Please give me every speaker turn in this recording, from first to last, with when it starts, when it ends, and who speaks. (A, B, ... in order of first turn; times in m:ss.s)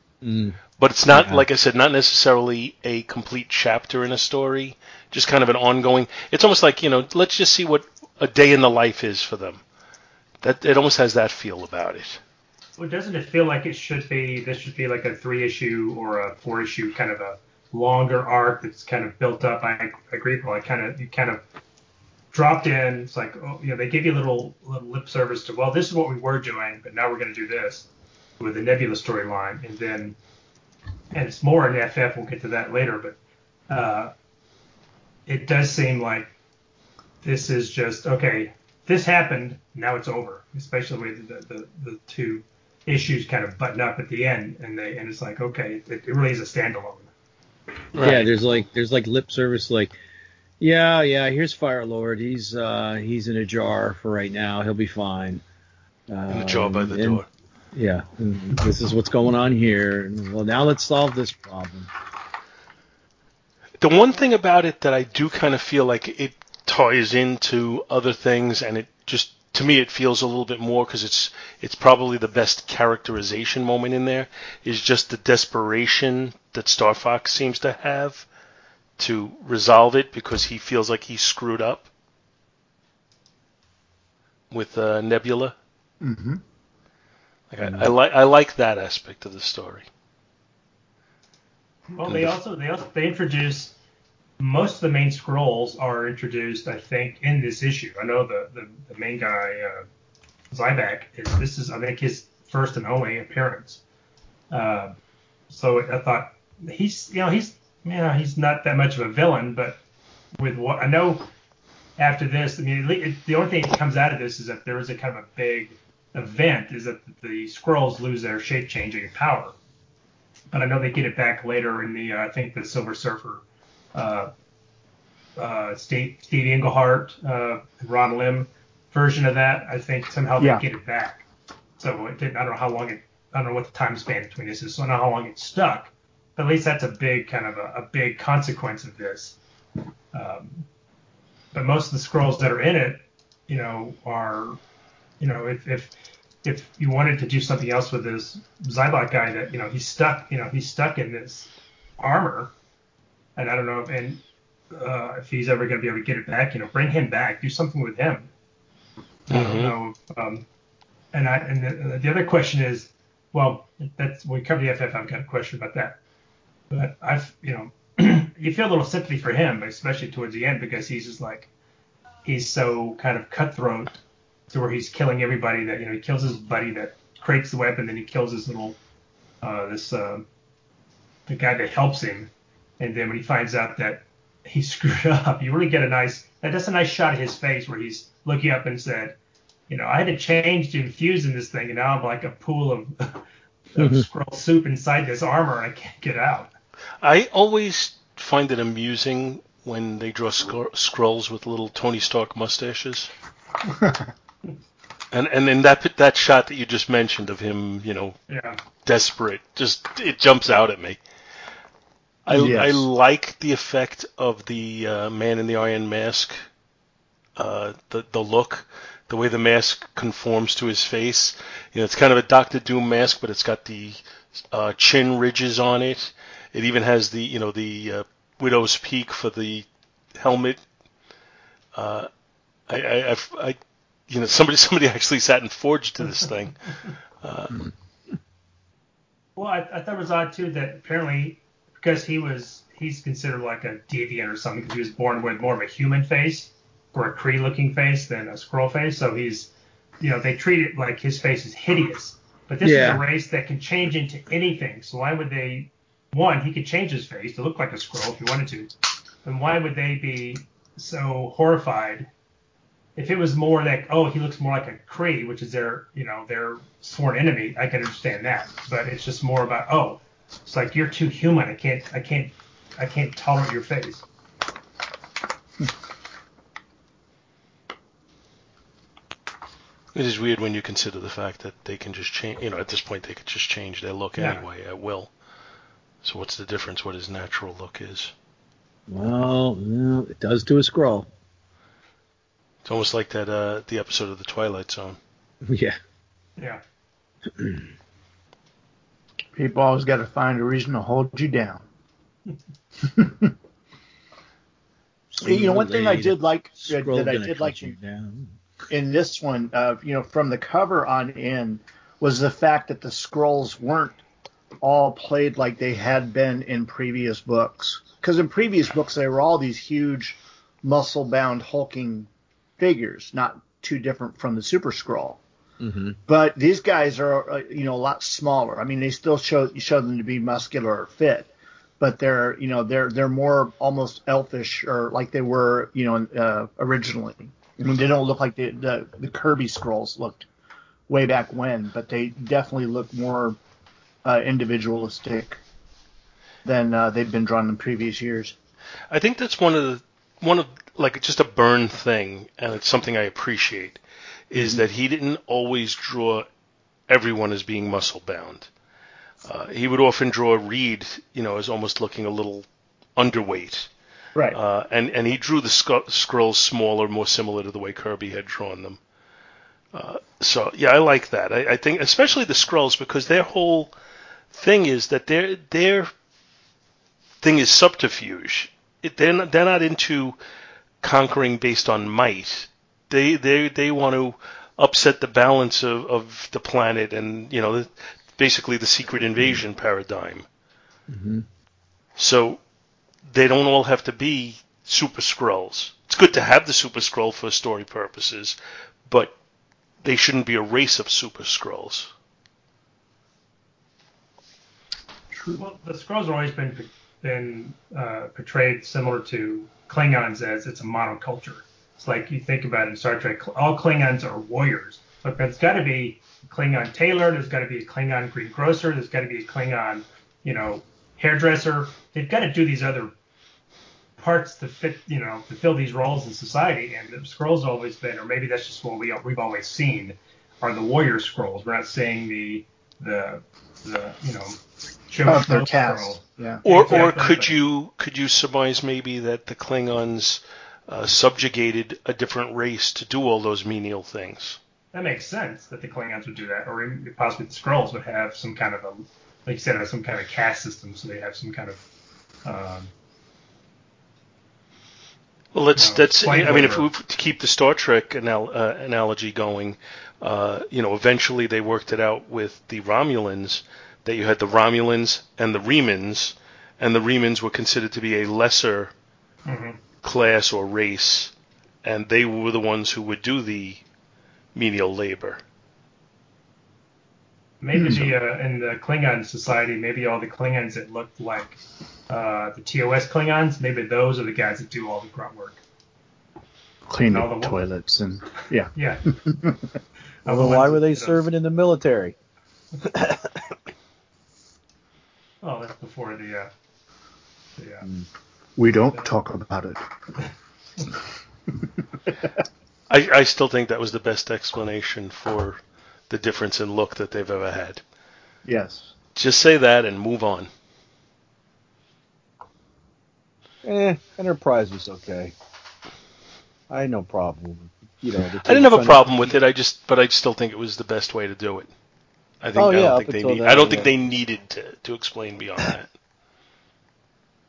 0:00.2-0:00.6 A
0:00.8-0:09.6 B
0:01.1-0:01.4 A
0:10.4-0:12.2 B
0:12.8-0:21.4 C
0:22.3-0:27.9 C
0:28.4-0:30.2 C
0:31.1-0:33.2 C
0:33.7-0:34.1 C
0:35.3-0:36.3 C
0:37.2-0:47.1 C
0:47.9-0:48.3 B
0:48.0-0:49.9 A
0:50.6-0:55.4 A
0:56.1-0:57.2 A
0:56.3-0:57.3 B
0:57.7-1:01.9 A
1:03.8-1:18.2 B
1:19.0-1:21.9 B
1:24.5-1:25.5 B
1:26.0-1:26.4 D
1:27.5-1:29.9 B
1:27.6-1:27.9 A
1:31.9-1:33.7 C
1:32.0-1:32.3 B
1:34.4-1:39.8 C
1:40.5-1:43.8 C
1:44.5-1:45.0 C
1:45.5-1:49.8 C
1:50.4-1:51.3 C
1:52.0-1:59.5 C
2:00.5-2:04.3 C
2:05.4-2:11.2 C
2:11.8-2:19.4 C
2:20.1-2:20.6 C
2:21.5-2:24.6 C
2:25.2-2:25.9 C
2:26.4-2:32.5 C
2:33.4-2:38.3 C
2:39.3-2:39.7 B
2:39.3-2:40.4 C
2:41.1-2:46.0 C
2:46.7-2:51.5 C
2:52.2-2:53.9 C
2:54.5-2:58.8 C
2:59.4-3:00.2 C
3:01.3-3:09.2 C
3:09.7-3:16.5 C
3:13.8-3:14.1 A
3:17.0-3:23.1 B
3:25.1-3:28.2 B
3:28.3-3:28.6 C
3:28.8-3:31.0 B
3:32.2-3:36.4 B
3:32.3-3:32.9 D
3:37.4-3:44.0 B
3:44.5-3:50.6 B
3:51.7-3:52.1 B
3:52.7-3:53.6 B
3:54.1-3:56.6 B
3:57.2-3:57.7 B
3:59.4-4:18.7 C
4:12.6-4:13.0 A
4:19.2-4:22.1 C
4:23.0-4:34.0 C
4:39.9-4:45.1 B
4:44.2-4:44.4 C
4:46.0-4:48.1 B
4:48.9-4:51.1 A
4:52.6-4:55.0 B
4:55.4-4:55.8 A
4:57.3-4:57.7 A
4:59.4-5:01.6 D
5:02.8-5:03.3 D
5:05.1-5:08.3 A
5:05.2-5:07.7 D
5:08.7-5:14.0 D
5:14.6-5:25.2 D
5:25.6-5:26.0 A
5:26.0-5:40.3 D
5:40.9-5:43.4 D
5:44.0-5:45.4 D
5:46.4-5:48.3 D
5:48.9-5:56.2 B
5:56.9-5:58.5 B
5:59.2-6:02.4 B
6:03.0-6:03.7 B
6:04.3-6:08.8 B
6:09.7-6:13.7 B
6:14.3-6:15.9 B
6:17.2-6:20.2 B
6:20.8-6:30.2 B
6:30.9-6:31.2 A
6:32.0-6:32.4 B
6:33.0-6:38.4 B
6:38.9-6:39.1 B
6:39.8-6:41.9 B
6:45.1-6:45.4 D
6:45.4-7:02.9 C
7:04.0-7:14.4 C
7:14.9-7:17.4 C
7:15.0-7:16.4 D
7:16.4-7:24.4 B
7:24.7-7:31.6 C
7:32.2-7:32.7 C
7:35.3-7:48.7 B
7:35.6-7:36.7 C
7:49.2-7:49.6 C
7:49.8-7:51.1 B
7:51.6-7:53.6 B
7:54.3-7:55.2 B
7:57.4-8:01.4 C
7:57.5-7:57.9 D
8:01.9-8:05.4 C
8:06.7-8:09.3 D
8:06.9-8:07.4 C
8:08.5-8:08.8 C
8:10.0-8:11.0 C
8:10.0-8:11.9 A
8:12.6-8:13.3 A
8:15.2-8:16.3 C
8:17.4-8:17.6 C
8:18.4-8:19.6 D
8:22.7-8:25.4 B
8:25.9-8:27.6 B
8:28.2-8:28.7 D
8:29.0-8:30.3 B
8:33.4-8:35.1 A
8:36.5-8:38.9 A
8:38.2-8:41.5 B
8:42.2-8:45.7 B
8:42.3-8:43.7 A